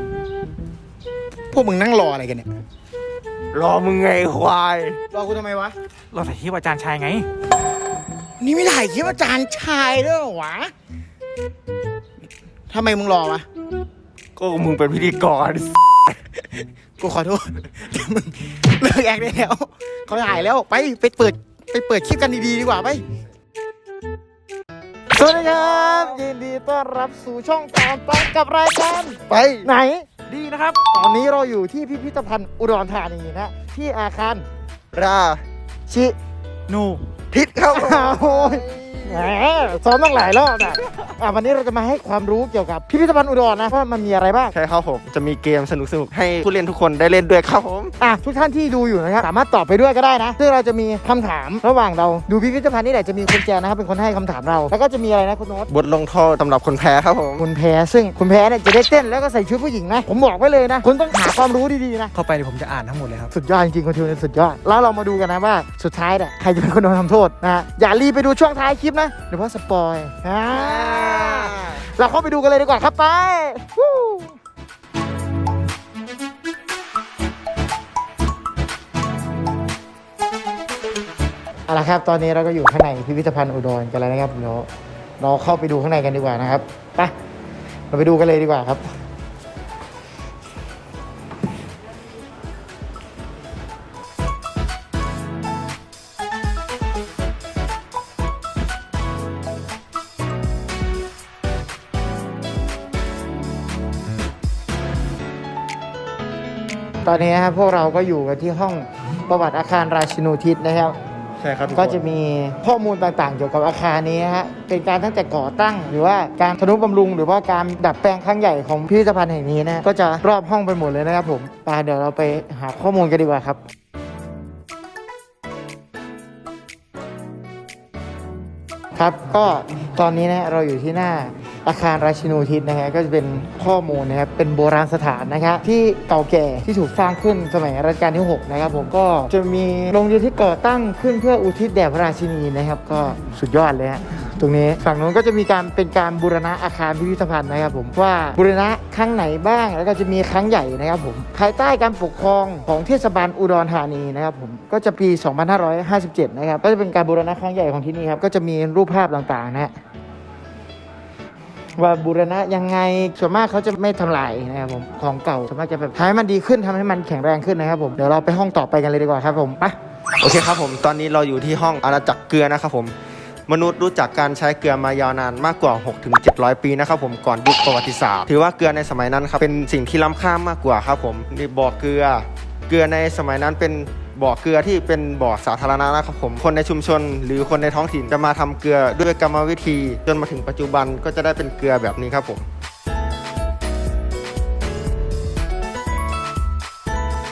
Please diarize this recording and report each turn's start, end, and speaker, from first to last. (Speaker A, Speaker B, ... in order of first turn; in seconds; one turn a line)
Speaker A: 1.5-2.5
Speaker B: 3.5-5.0
Speaker A: 5.1-5.7
Speaker C: 6.1-7.3
Speaker A: 8.4-10.7
Speaker A: 12.7-13.4
Speaker B: 14.4-15.7
Speaker A: 17.0-23.0
Speaker A: 25.1-30.1
Speaker B: 29.3-29.7
Speaker C: 30.3-30.8
Speaker A: 30.9-34.4
Speaker B: 34.9-35.4
Speaker A: 35.9-36.1
Speaker C: 36.7-37.0
Speaker B: 37.3-39.2
Speaker A: 37.7-44.5
Speaker B: 44.5-47.9
Speaker A: 48.0-55.7
Speaker B: 55.7-57.5
Speaker A: 57.4-62.1
Speaker C: 62.1-63.3
Speaker A: 63.3-74.4
Speaker B: 70.5-71.8
Speaker A: 81.7-84.7
Speaker A: 85.2-87.1
Speaker A: 87.9-88.8
Speaker A: 107.0-111.0
Speaker B: 111.4-112.0
Speaker A: 111.7-123.6
Speaker A: 128.9-159.7
Speaker A: 161.8-169.7
Speaker B: 170.2-172.9
Speaker B: 173.5-192.4